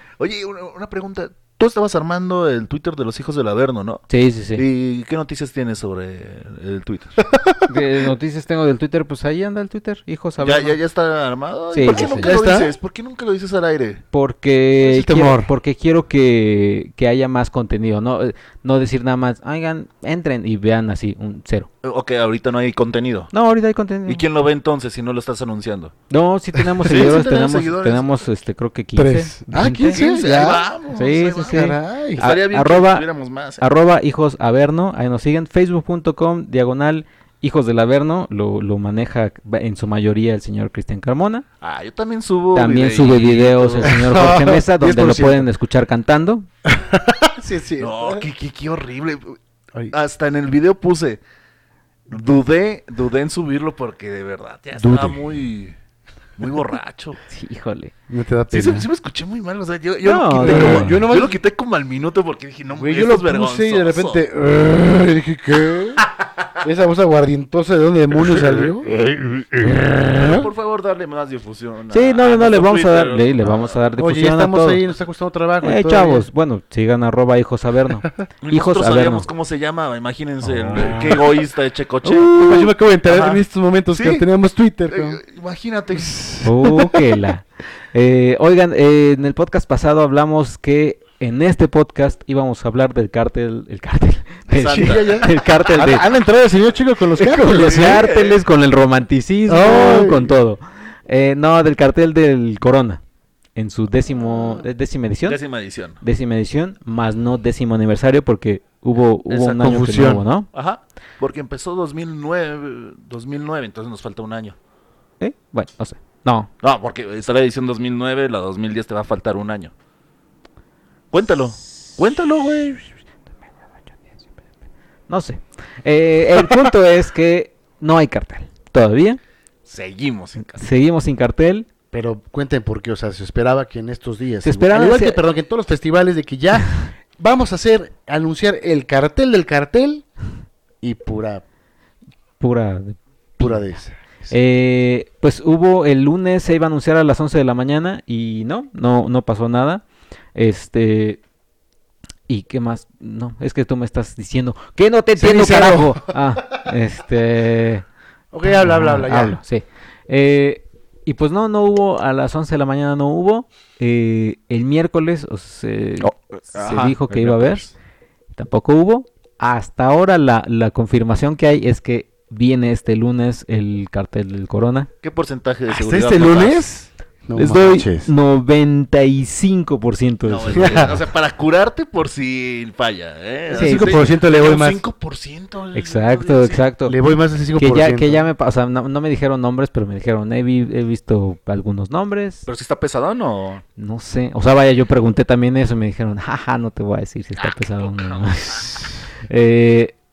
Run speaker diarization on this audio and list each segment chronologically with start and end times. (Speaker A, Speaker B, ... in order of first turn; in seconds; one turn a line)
Speaker A: 0.2-4.0
Speaker B: 4.1-4.6
Speaker A: 4.5-7.2
Speaker C: 7.2-7.7
Speaker B: 7.7-10.8
Speaker A: 10.4-14.0
Speaker B: 11.7-12.3
Speaker C: 11.8-12.7
Speaker B: 14.1-21.7
Speaker C: 14.8-15.5
Speaker A: 21.8-23.3
Speaker B: 23.3-24.2
Speaker A: 24.1-25.9
Speaker B: 26.1-30.0
Speaker C: 26.8-27.3
Speaker A: 26.8-28.2
Speaker C: 28.9-30.7
Speaker A: 29.9-33.6
Speaker B: 30.9-33.0
Speaker C: 31.5-32.3
Speaker B: 33.6-41.4
Speaker A: 41.6-44.0
Speaker B: 42.5-46.5
Speaker C: 43.9-45.5
Speaker C: 46.6-48.3
Speaker A: 47.8-49.4
Speaker A: 49.9-51.2
Speaker A: 52.1-55.8
Speaker C: 54.8-55.2
Speaker A: 56.4-57.2
Speaker B: 57.3-57.9
Speaker C: 58.1-58.9
Speaker A: 58.5-64.2
Speaker B: 60.0-61.0
Speaker C: 60.4-61.4
Speaker C: 62.7-66.0
Speaker C: 66.6-68.9
Speaker A: 68.2-69.3
Speaker C: 69.5-70.5
Speaker A: 70.1-73.8
Speaker B: 71.9-74.8
Speaker C: 74.0-76.3
Speaker B: 75.6-79.2
Speaker A: 78.4-84.2
Speaker B: 80.6-81.1
Speaker C: 80.7-81.2
Speaker C: 82.1-85.2
Speaker B: 82.2-82.7
Speaker A: 84.9-86.2
Speaker C: 86.0-87.2
Speaker B: 86.4-96.0
Speaker A: 94.5-95.5
Speaker C: 94.7-98.0
Speaker B: 97.2-103.0
Speaker A: 97.4-98.4
Speaker C: 99.5-100.4
Speaker B: 103.5-105.4
Speaker C: 104.2-104.6
Speaker A: 105.2-106.0
Speaker B: 106.0-110.5
Speaker A: 109.3-109.7
Speaker C: 109.6-110.2
Speaker A: 110.5-114.6
Speaker B: 115.2-116.5
Speaker A: 116.6-119.7
Speaker A: 121.1-122.9
Speaker B: 125.1-129.2
Speaker A: 129.6-130.6
Speaker B: 130.5-131.7
Speaker C: 131.9-140.1
Speaker B: 134.4-135.2
Speaker C: 140.8-141.4
Speaker B: 142.4-143.7
Speaker C: 143.4-144.3
Speaker B: 144.3-149.8
Speaker B: 150.3-151.2
Speaker B: 152.3-157.8
Speaker C: 155.2-156.2
Speaker C: 158.3-159.4
Speaker B: 158.4-167.6
Speaker A: 166.0-167.7
Speaker B: 168.3-174.9
Speaker A: 175.0-176.7
Speaker C: 175.7-178.1
Speaker B: 177.3-181.0
Speaker A: 180.2-186.7
Speaker C: 180.5-180.9
Speaker C: 183.5-184.8
Speaker B: 183.5-184.0
Speaker B: 185.7-187.0
Speaker C: 186.8-188.3
Speaker B: 187.6-192.4
Speaker A: 192.4-193.6
Speaker B: 193.8-199.9
Speaker A: 197.4-198.7